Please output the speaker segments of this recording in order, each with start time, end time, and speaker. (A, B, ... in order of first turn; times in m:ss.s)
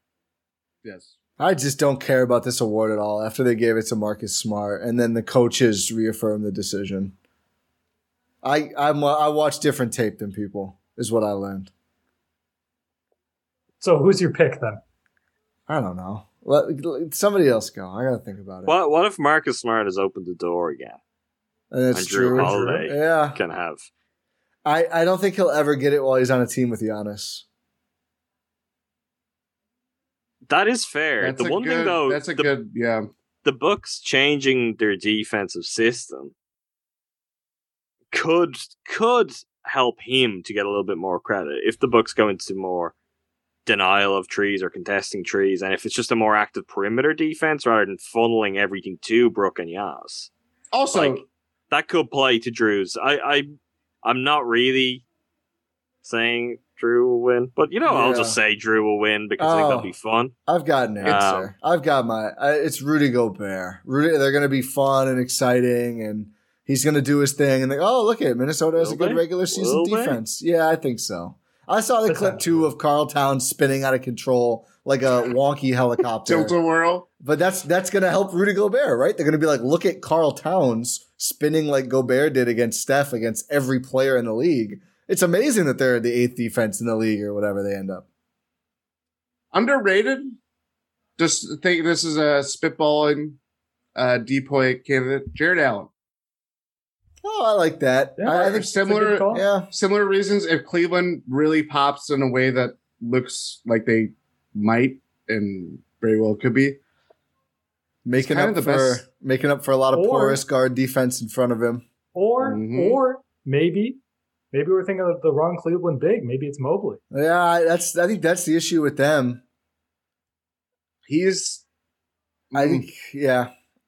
0:00.8-0:01.2 A
0:01.4-0:07.1 B
0:08.4-0:11.7 B
0:13.8-0:14.8 C
0:15.7-0:18.7 B
0:18.7-0:21.0 D
0:21.7-0:23.4 B
0:21.9-0:23.9 D
0:22.5-0:22.8 C
0:24.6-0:27.5 B
0:30.5-0:32.5 D
0:31.2-0:33.1 A
0:33.4-0:36.3 D
0:38.1-0:42.9 D
0:43.7-0:50.3 D
0:50.7-0:51.2 A
0:50.9-0:53.5 D
0:54.0-0:55.0 D
0:56.0-1:00.3 D
0:57.9-0:58.4 B
0:59.4-0:59.9 B
1:00.5-1:16.5 B
1:01.0-1:01.5 D
1:08.8-1:10.2 D
1:12.1-1:12.7 C
1:16.2-1:17.1 A
1:17.2-1:28.1 B
1:29.5-1:30.4 A
1:31.2-1:33.4 A
1:34.0-1:35.9 A
1:37.2-1:38.7 B
1:38.2-1:39.5 C
1:38.3-1:46.8 A
1:39.3-1:39.7 B
1:48.0-1:51.8 B
1:48.2-1:49.0 A
1:49.9-1:50.4 C
1:52.2-1:54.0 C
1:52.4-1:53.0 A
1:54.5-1:57.0 C
1:57.1-1:59.4 B
2:01.1-2:01.6 A
2:02.5-2:02.9 A
2:02.5-2:03.5 B